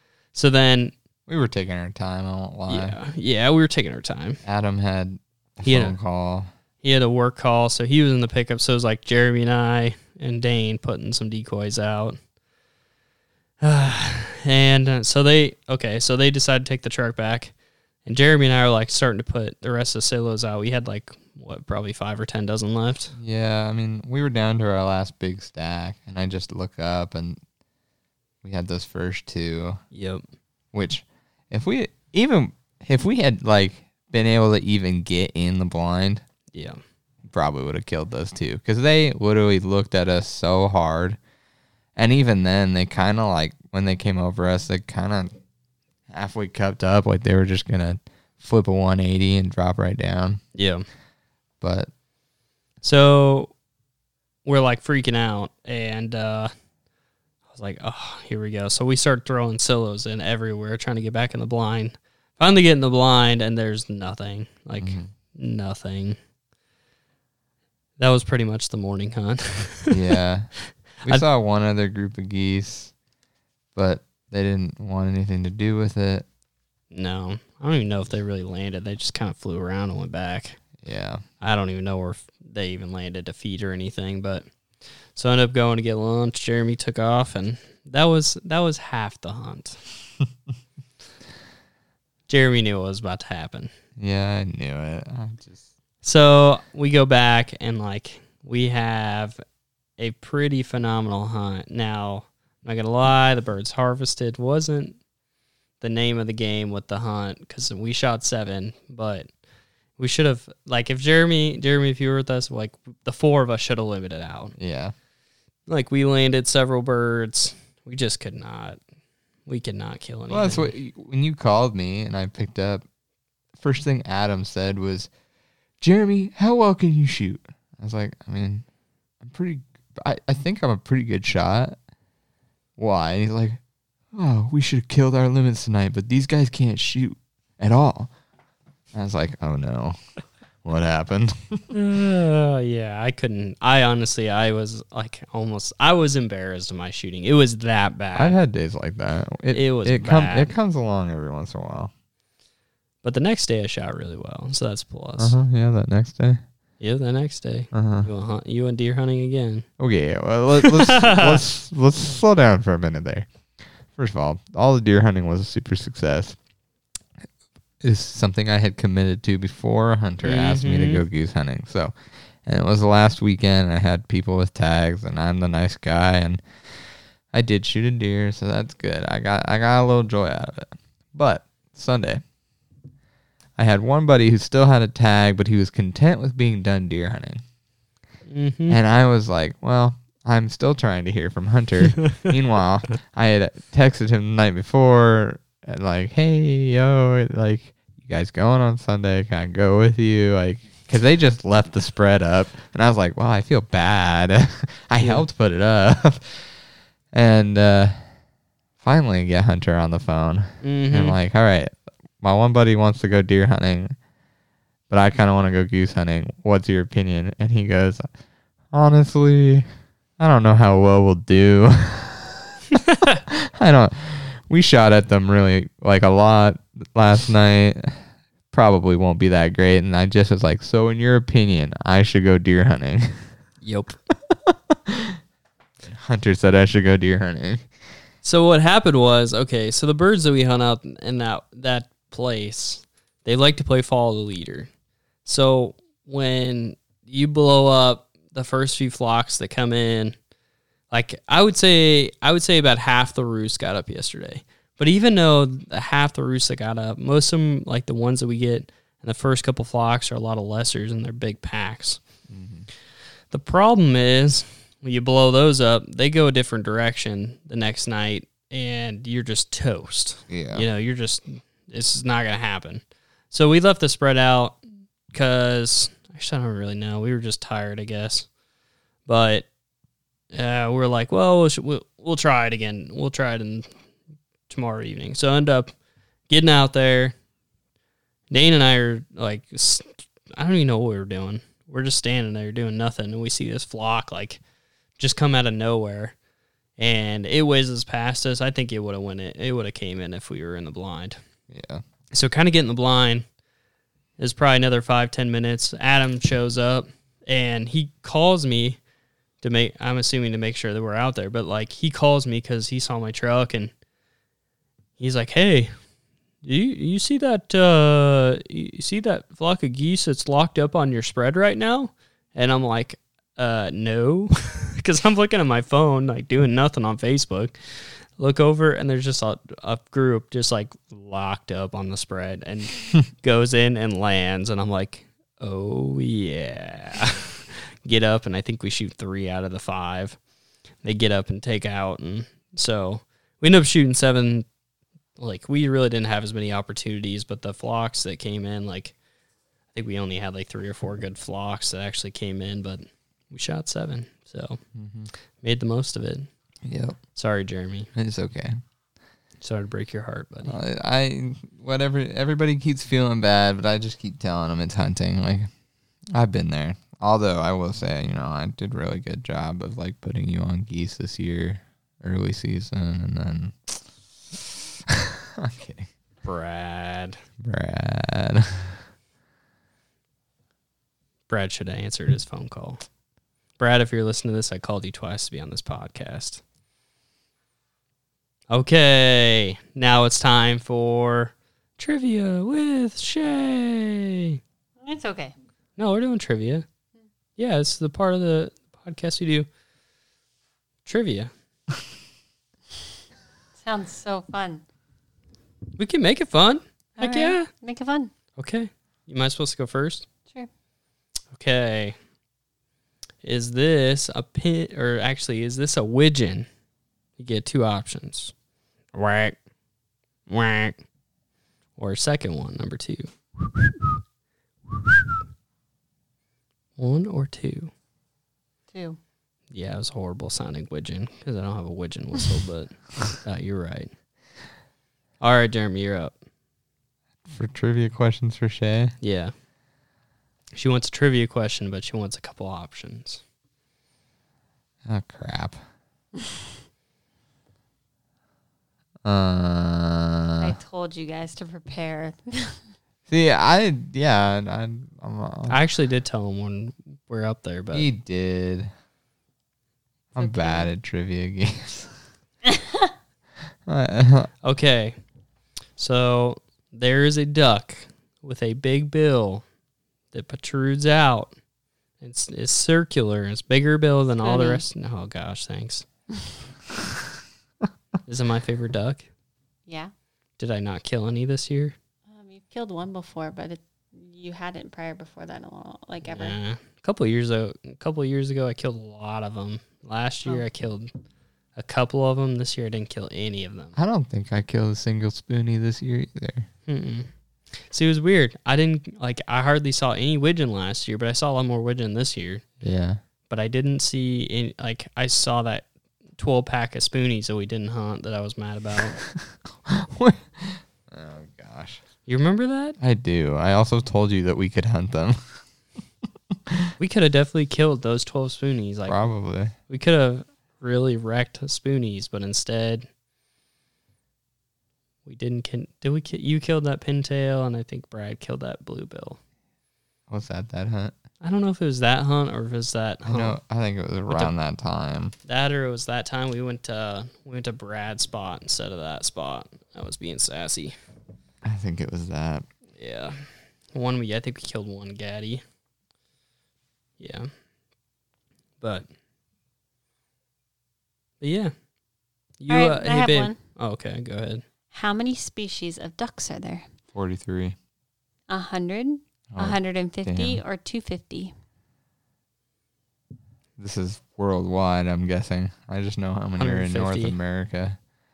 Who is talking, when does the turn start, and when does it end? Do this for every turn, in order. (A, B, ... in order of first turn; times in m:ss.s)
0:00.3-0:00.9 A
0:01.3-0:03.0 B
0:02.7-0:04.4 A
0:04.4-0:06.5 B
0:05.6-0:05.9 A
0:06.8-0:12.2 A
0:13.6-0:17.5 A
0:18.0-0:23.1 A
0:23.2-0:27.4 B
0:28.4-0:29.8 B
0:29.9-0:30.2 A
0:30.7-0:36.2 B
0:36.5-0:36.8 A
0:37.2-0:41.2 B
0:42.0-0:45.4 B
0:46.1-0:50.4 B
0:50.5-0:50.8 A
0:51.6-0:51.9 B
0:52.8-0:53.5 A
0:54.4-0:56.5 A
0:57.5-1:06.2 A
1:04.8-1:05.1 B
1:08.0-1:10.0 A
1:09.9-1:12.9 B
1:13.7-1:16.2 B
1:16.9-1:20.6 A
1:20.8-1:21.2 B
1:21.4-1:24.4 A
1:25.1-1:29.8 A
1:32.3-1:33.7 A
1:34.0-1:35.6 B
1:36.0-1:39.4 A
1:40.0-1:45.0 A
1:45.8-1:49.3 A
1:50.0-1:54.5 A
1:54.6-1:54.9 B
1:55.7-1:58.8 A
1:59.5-2:00.7 A
2:00.3-2:02.8 B
2:03.6-2:05.1 B
2:05.8-2:08.6 B
2:09.2-2:11.8 B
2:12.8-2:13.6 B
2:14.1-2:18.1 B
2:18.9-2:20.0 B
2:20.6-2:21.7 B
2:21.7-2:28.4 A
2:28.1-2:31.9 B
2:29.5-2:30.5 A
2:33.0-2:35.4 A
2:35.2-2:36.4 B
2:36.8-2:39.7 A
2:37.7-2:38.1 B
2:39.8-2:43.3 B
2:40.6-2:41.4 A
2:43.9-2:46.4 B
2:47.8-2:56.4 B
2:50.2-2:51.0 A
2:57.3-3:02.2 B
3:03.6-3:07.4 B
3:08.3-3:08.8 A
3:08.7-3:26.5 B
3:12.0-3:12.3 A
3:27.1-3:28.1 B
3:28.8-3:34.0 B
3:30.6-3:31.2 A
3:34.9-3:38.1 B
3:38.7-3:39.7 B
3:40.2-3:42.6 B
3:42.8-3:43.2 A
3:43.2-3:48.0 B
3:48.5-3:53.2 B
3:53.6-3:54.0 A
3:54.3-3:55.2 B
3:55.8-3:57.6 B
3:58.2-4:04.7 A
4:05.2-4:10.2 A
4:10.9-4:22.0 A
4:22.3-4:22.7 B
4:23.3-4:34.6 A
4:30.3-4:30.6 B
4:35.1-4:38.3 A
4:39.0-4:39.5 A
4:40.3-4:43.7 A
4:44.5-4:45.7 A
4:46.3-4:47.1 A
4:48.3-4:54.4 A
4:55.0-4:56.1 A
4:56.8-5:01.2 A
5:01.5-5:01.8 B
5:02.1-5:03.2 A
5:04.2-5:08.8 A
5:09.4-5:13.7 A
5:15.0-5:15.7 A
5:16.4-5:27.5 A
5:28.2-5:40.2 A
5:40.8-5:44.4 A
5:45.2-5:48.9 A
5:49.7-5:54.6 A
5:54.8-5:55.1 B
5:55.4-5:56.3 A
5:56.6-5:57.0 B
5:57.1-5:57.9 A
5:57.9-5:58.6 B
5:59.4-6:00.6 A
6:00.5-6:05.5 B
6:06.1-6:15.9 B
6:16.2-6:17.2 A
6:17.4-6:18.8 B
6:21.3-6:22.8 A
6:23.6-6:26.4 A
6:28.5-6:34.4 A
6:34.8-6:35.3 C
6:35.8-6:36.6 A
6:37.4-6:39.5 A
6:40.8-6:41.3 A
6:43.6-6:44.6 C
6:45.8-6:47.5 A
6:47.0-6:48.1 C
6:48.4-6:50.0 A
6:51.3-6:52.0 A
6:53.2-6:56.5 A
6:57.2-6:58.3 A
6:58.9-6:59.4 A
7:00.3-7:00.8 A
7:01.8-7:03.9 A
7:04.7-7:05.0 A
7:06.8-7:07.7 A
7:08.7-7:09.0 C
7:09.5-7:13.9 A
7:15.2-7:16.1 A
7:17.2-7:18.9 B
7:19.0-7:19.3 A
7:20.5-7:23.2 A
7:24.8-7:25.6 B
7:29.0-7:30.6 B
7:30.4-7:32.6 C
7:33.1-7:35.6 B
7:35.5-7:37.9 A
7:37.7-7:38.7 B
7:40.1-7:41.9 B
7:40.2-7:40.7 C
7:42.4-7:42.9 C
7:43.6-7:44.3 B
7:44.4-7:45.0 A
7:45.8-7:49.4 A
7:50.1-7:51.3 A
7:52.0-7:55.8 A
7:54.2-7:54.6 C
7:58.0-7:59.0 A
7:59.7-7:59.9 C
8:00.4-8:01.7 A
8:02.1-8:06.4 C
8:06.1-8:10.9 A
8:11.6-8:13.8 A
8:13.8-8:16.5 B
8:16.7-8:17.1 A
8:17.6-8:22.4 A
8:22.6-8:23.0 B
8:23.3-8:29.0 A
8:29.2-8:31.8 B
8:32.0-8:32.8 A
8:32.8-8:35.4 B
8:36.8-8:39.0 A
8:38.9-8:39.5 B
8:39.7-8:42.9 A
8:45.0-8:49.2 A
8:50.1-8:50.9 B
8:51.2-8:53.4 A
8:53.0-8:55.1 B
8:55.2-9:00.7 A
9:01.4-9:02.4 B
9:02.8-9:05.4 A
9:07.0-9:07.3 A
9:08.6-9:08.9 A
9:11.2-9:11.5 A
9:12.4-9:14.4 A
9:12.5-9:13.4 C
9:14.7-9:16.7 C
9:16.9-9:17.6 B
9:18.3-9:21.3 C
9:19.3-9:20.4 B
9:23.6-9:27.8 B
9:26.4-9:27.1 A